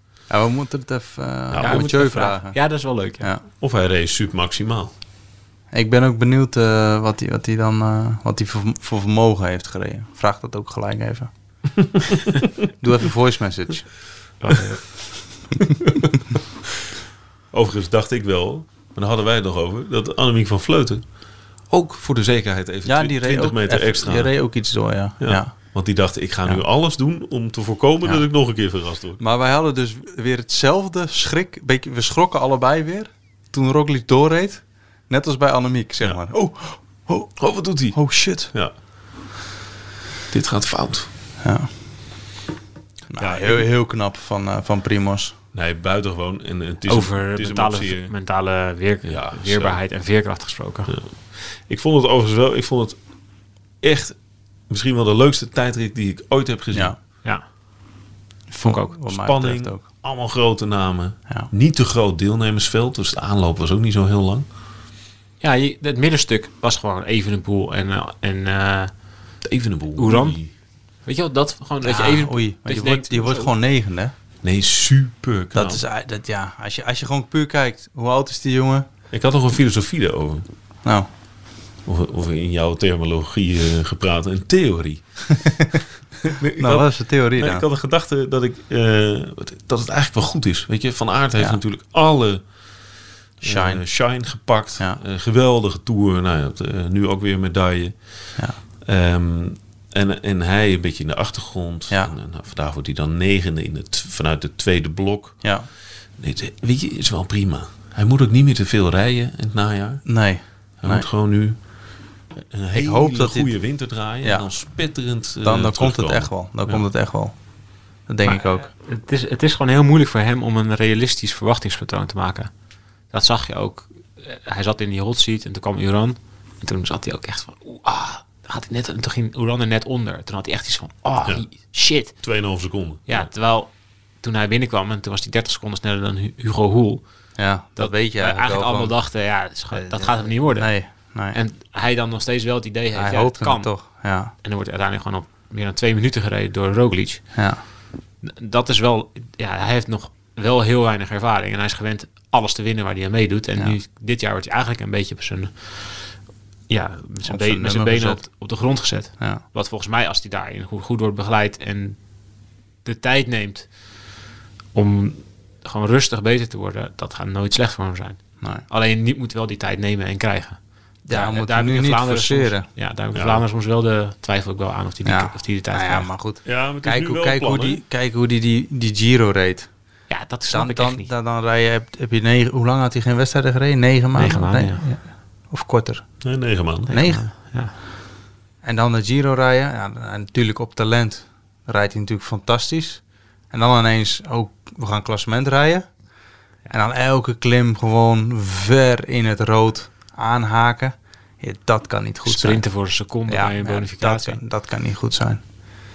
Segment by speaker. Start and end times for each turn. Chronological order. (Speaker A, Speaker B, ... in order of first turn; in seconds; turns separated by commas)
Speaker A: 0.3-3.4, Speaker B: 1.5-1.9, Speaker C: 1.6-3.3, Speaker B: 3.6-4.9, Speaker A: 5.7-11.3, Speaker A: 12.7-14.0, Speaker C: 14.4-15.0, Speaker B: 17.5-21.1, Speaker B: 21.7-29.2, Speaker A: 22.8-25.8, Speaker A: 29.2-38.5, Speaker B: 37.4-38.7, Speaker B: 40.3-41.1, Speaker A: 41.4-41.7, Speaker A: 43.1-45.3, Speaker B: 43.2-43.7, Speaker B: 45.5-48.1, Speaker C: 46.9-50.9, Speaker B: 49.0-49.8, Speaker B: 50.9-53.0, Speaker B: 53.8-57.0, Speaker A: 58.5-59.8, Speaker C: 58.6-58.9, Speaker B: 59.0-64.5, Speaker C: 65.4-69.0, Speaker B: 69.4-70.5, Speaker C: 70.0-73.5, Speaker A: 71.8-74.1, Speaker B: 74.4-75.8, Speaker A: 75.5-78.9, Speaker B: 79.1-80.5, Speaker B: 81.8-85.7, Speaker B: 86.2-110.2, Speaker A: 86.6-87.6, Speaker A: 93.4-93.9, Speaker A: 105.4-105.7, Speaker A: 110.0-111.1, Speaker B: 110.8-116.8, Speaker A: 112.7-114.7, Speaker A: 115.4-117.4, Speaker A: 117.9-118.7, Speaker C: 118.2-122.5, Speaker C: 123.1-132.4, Speaker B: 132.1-133.3, Speaker C: 133.1-143.7, Speaker A: 137.4-139.0, Speaker A: 139.7-141.4, Speaker A: 142.9-144.3, Speaker C: 144.3-147.4, Speaker A: 147.3-147.6, Speaker C: 148.2-156.2, Speaker C: 156.7-162.1, Speaker A: 157.2-158.3, Speaker C: 162.8-163.8, Speaker C: 164.7-176.1, Speaker A: 171.0-172.7, Speaker B: 173.1-173.4, Speaker A: 175.0-179.7, Speaker B: 176.4-177.8, Speaker C: 180.1-181.1, Speaker A: 180.5-186.3, Speaker C: 184.1-184.9, Speaker B: 186.2-186.9, Speaker A: 186.9-187.3, Speaker C: 186.9-187.7, Speaker A: 188.6-195.9, Speaker A: 196.7-205.4, Speaker C: 202.2-204.4